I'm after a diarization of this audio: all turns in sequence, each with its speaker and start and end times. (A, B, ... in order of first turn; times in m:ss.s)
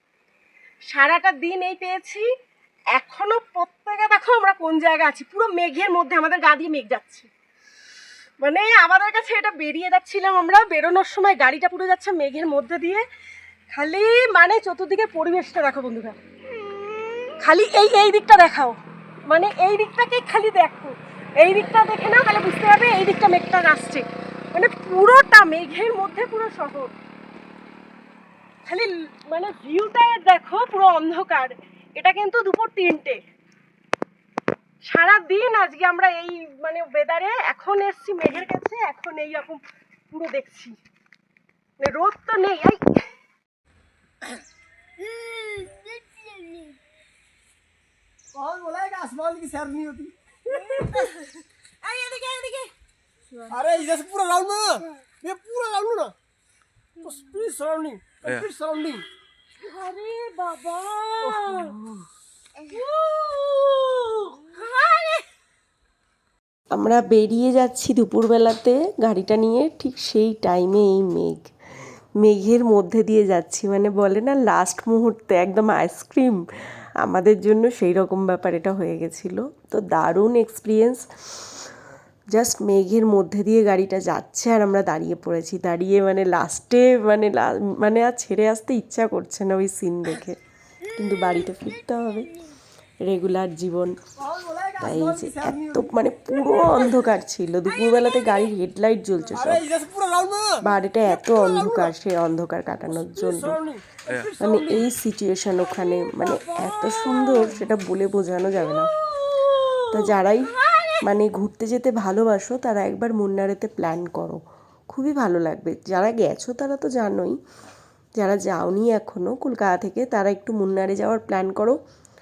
0:00.9-0:02.2 A
0:02.9-0:07.3 A
0:08.4-0:13.0 A
0:13.7-0:16.2 A
0:17.2-0:18.7 A
0:19.3-0:26.9 A
0:28.7-0:33.2 A
0:34.9-0:40.7 A
0:41.8-0:43.0 A
0:48.3-0:50.1 B
0:50.5-0:52.7 A
0:53.5-0:56.1 B
0:57.0-0:59.1 B
0:59.6-1:01.8 A
1:01.2-1:02.0 B
1:02.6-1:05.2 A
1:06.7-1:11.5 C
1:12.2-1:16.4 C
1:17.0-1:21.7 C
1:22.3-1:32.5 C
1:33.0-1:34.0 C
1:34.2-1:35.9 B
1:34.8-1:39.7 C
1:39.3-1:40.6 B
1:40.6-1:43.6 C
1:41.2-1:41.9 B
1:42.9-1:44.9 B
1:44.4-1:48.9 C
1:49.7-1:57.4 C
1:58.2-2:01.8 C